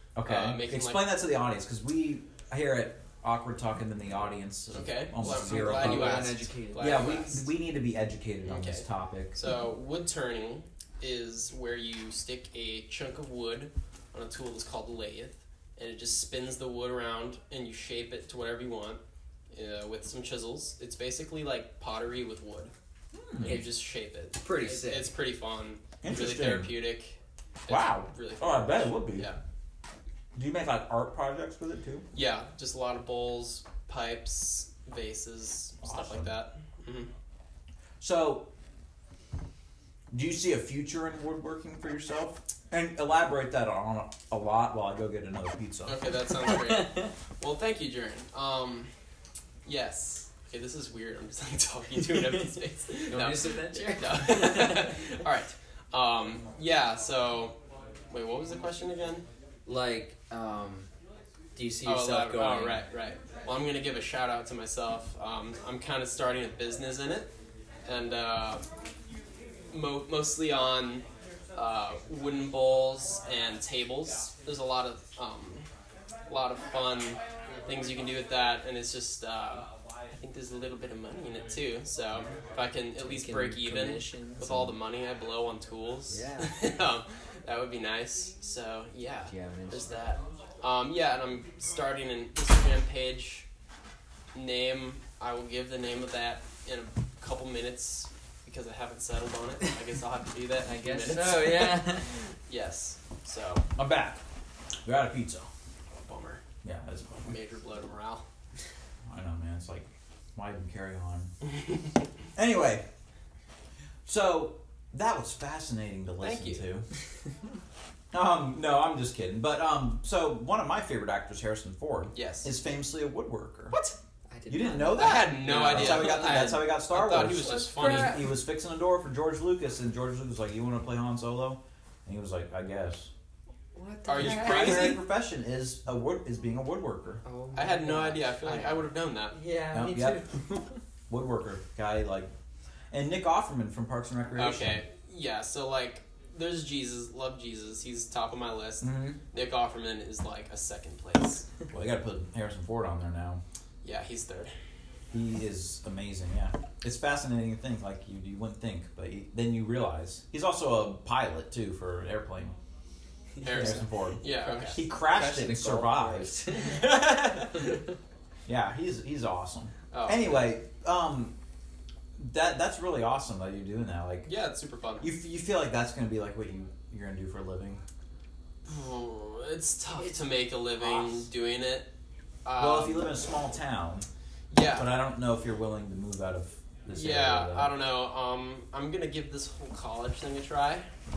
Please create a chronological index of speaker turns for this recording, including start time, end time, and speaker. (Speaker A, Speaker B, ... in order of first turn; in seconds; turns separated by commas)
Speaker A: 0.1-9.4, Speaker B: 0.2-1.1, Speaker B: 4.7-7.5, Speaker C: 5.2-7.0, Speaker B: 8.4-19.0, Speaker B: 19.5-22.7, Speaker A: 23.1-23.6, Speaker B: 23.4-29.4, Speaker C: 23.4-23.7, Speaker C: 24.4-25.1, Speaker A: 26.0-26.7, Speaker A: 27.7-29.3, Speaker A: 30.3-32.0, Speaker B: 32.1-37.1, Speaker A: 35.8-36.3, Speaker A: 38.0-38.5, Speaker A: 40.1-46.0, Speaker B: 45.9-48.9, Speaker C: 46.5-47.1, Speaker B: 49.6-57.5, Speaker C: 52.1-52.4, Speaker C: 53.1-55.0, Speaker B: 58.1-59.2, Speaker C: 59.6-60.9, Speaker C: 61.5-62.8, Speaker B: 61.8-67.3, Speaker B: 67.8-68.7, Speaker B: 69.7-71.0, Speaker B: 71.5-75.7, Speaker B: 76.3-93.5, Speaker C: 83.0-84.7, Speaker C: 86.1-86.5, Speaker C: 89.3-90.0, Speaker B: 94.3-103.7, Speaker C: 100.6-102.2, Speaker A: 103.8-104.2, Speaker A: 104.8-105.5, Speaker B: 106.0-106.4, Speaker A: 106.6-107.3, Speaker B: 107.2-108.2, Speaker A: 109.1-111.3, Speaker A: 112.3-112.8, Speaker A: 114.0-116.8, Speaker B: 116.2-116.6, Speaker A: 118.1-123.8, Speaker B: 122.1-122.5, Speaker C: 124.3-126.6, Speaker A: 124.5-133.1, Speaker B: 124.9-128.3, Speaker C: 127.3-128.3, Speaker C: 133.7-135.0, Speaker B: 134.1-135.0, Speaker A: 134.2-137.2, Speaker C: 137.2-140.8, Speaker B: 137.5-139.4, Speaker A: 139.7-140.2, Speaker A: 141.1-142.3, Speaker A: 142.9-144.8, Speaker B: 144.3-151.4, Speaker A: 148.8-149.2, Speaker A: 151.7-153.4, Speaker B: 153.8-154.5, Speaker A: 155.1-162.5, Speaker C: 163.4-166.8, Speaker B: 163.4-164.8, Speaker A: 163.4-167.7, Speaker A: 168.5-171.3, Speaker B: 169.9-170.5, Speaker A: 172.2-174.3, Speaker B: 174.2-175.1, Speaker A: 175.0-177.8, Speaker B: 178.7-181.9, Speaker A: 180.8-181.2, Speaker B: 182.4-183.2, Speaker A: 182.6-184.1, Speaker B: 184.5-184.9, Speaker A: 184.7-187.7, Speaker B: 186.9-190.9